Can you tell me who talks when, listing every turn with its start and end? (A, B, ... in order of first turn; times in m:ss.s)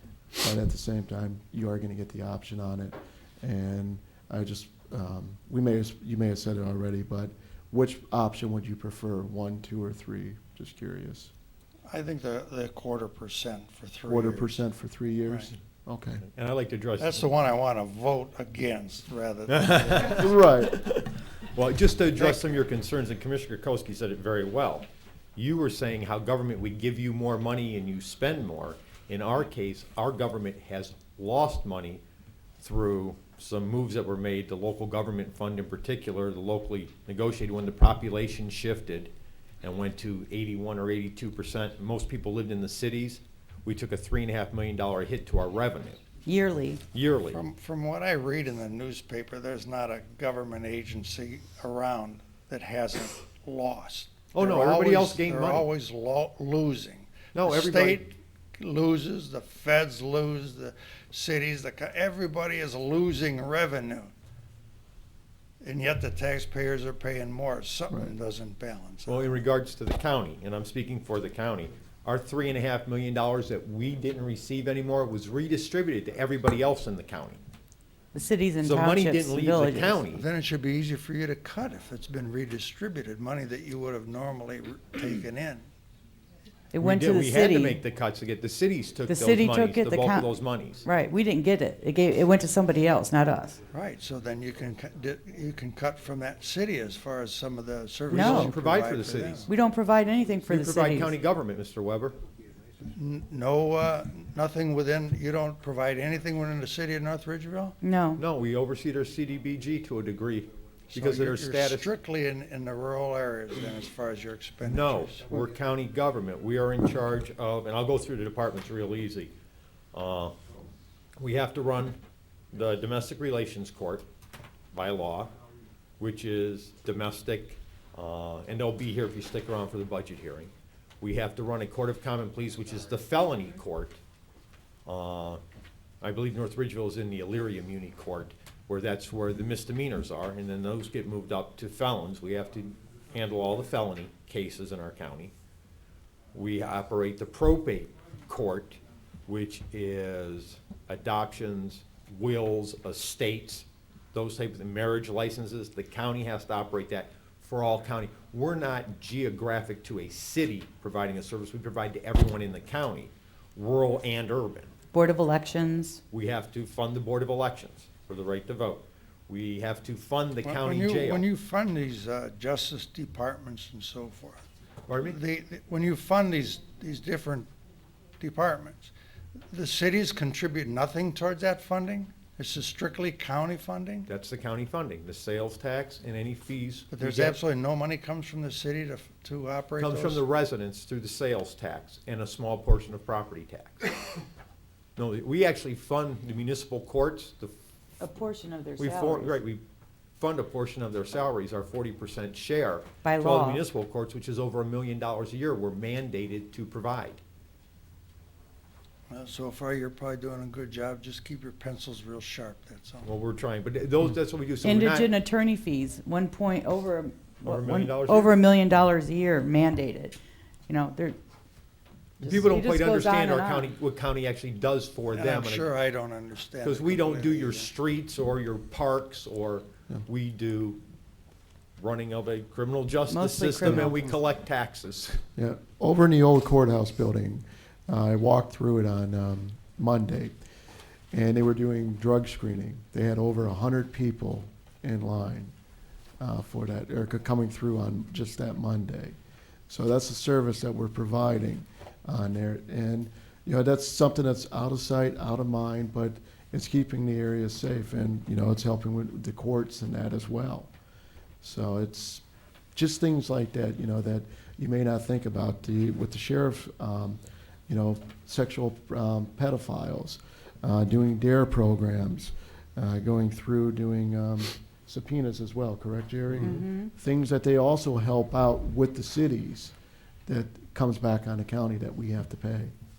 0:00.4-0:11.3 A
0:11.9-0:14.6 B
0:14.1-0:16.3 A
0:16.3-0:17.3 C
0:17.0-0:20.2 B
0:19.5-0:32.0 C
0:20.1-0:20.8 A
0:32.6-0:39.1 C
0:39.6-0:46.0 C
0:46.3-0:46.8 D
0:46.9-0:47.4 C
0:47.3-1:04.1 B
0:54.3-0:55.7 C
0:57.3-0:58.0 C
1:05.6-1:09.5 B
1:09.1-1:17.4 C
1:18.1-1:20.1 D
1:18.6-1:20.2 C
1:20.1-1:25.7 B
1:26.7-1:27.8 D
1:26.8-1:30.8 C
1:29.1-1:33.6 D
1:33.7-1:39.5 B
1:38.1-1:38.6 D
1:38.1-1:39.5 C
1:39.5-1:41.2 D
1:40.5-1:42.2 C
1:43.0-1:47.8 B
1:47.8-1:48.2 D
1:48.2-1:51.9 C
1:50.9-1:55.4 B
1:54.6-1:59.3 C
1:59.9-2:00.4 C
2:01.2-2:02.0 C
2:02.5-2:04.1 C
2:04.7-2:05.3 C
2:06.0-2:14.0 C
2:14.9-2:15.4 C
2:16.0-2:25.3 C
2:26.3-2:44.8 C
2:44.9-2:46.0 D
2:46.1-2:51.3 C
2:50.4-2:54.4 B
2:54.9-2:55.2 C
2:55.0-2:57.5 B
2:58.2-2:58.9 B
2:59.5-3:04.1 B
3:04.1-3:07.4 C
3:06.9-3:10.2 B
3:09.8-3:13.8 C
3:15.0-3:17.5 C
3:18.0-3:19.4 D
3:18.8-3:19.6 C
3:20.2-3:27.2 C
3:23.0-3:23.6 D
3:29.1-3:33.1 B
3:33.0-3:35.1 C
3:34.6-3:40.2 D
3:37.4-3:38.4 C
3:40.7-3:41.2 D
3:42.2-3:45.7 C
3:42.2-3:43.7 D
3:45.1-3:47.7 B
3:46.6-3:50.8 C
3:51.8-3:55.2 C
3:53.1-3:54.1 D
3:55.4-4:00.4 A
4:01.1-4:05.5 A
4:06.2-4:09.2 A
4:09.7-4:20.7 A
4:21.4-4:22.2 A
4:22.8-4:39.7 A
4:36.4-4:36.9 D
4:40.3-4:42.7 A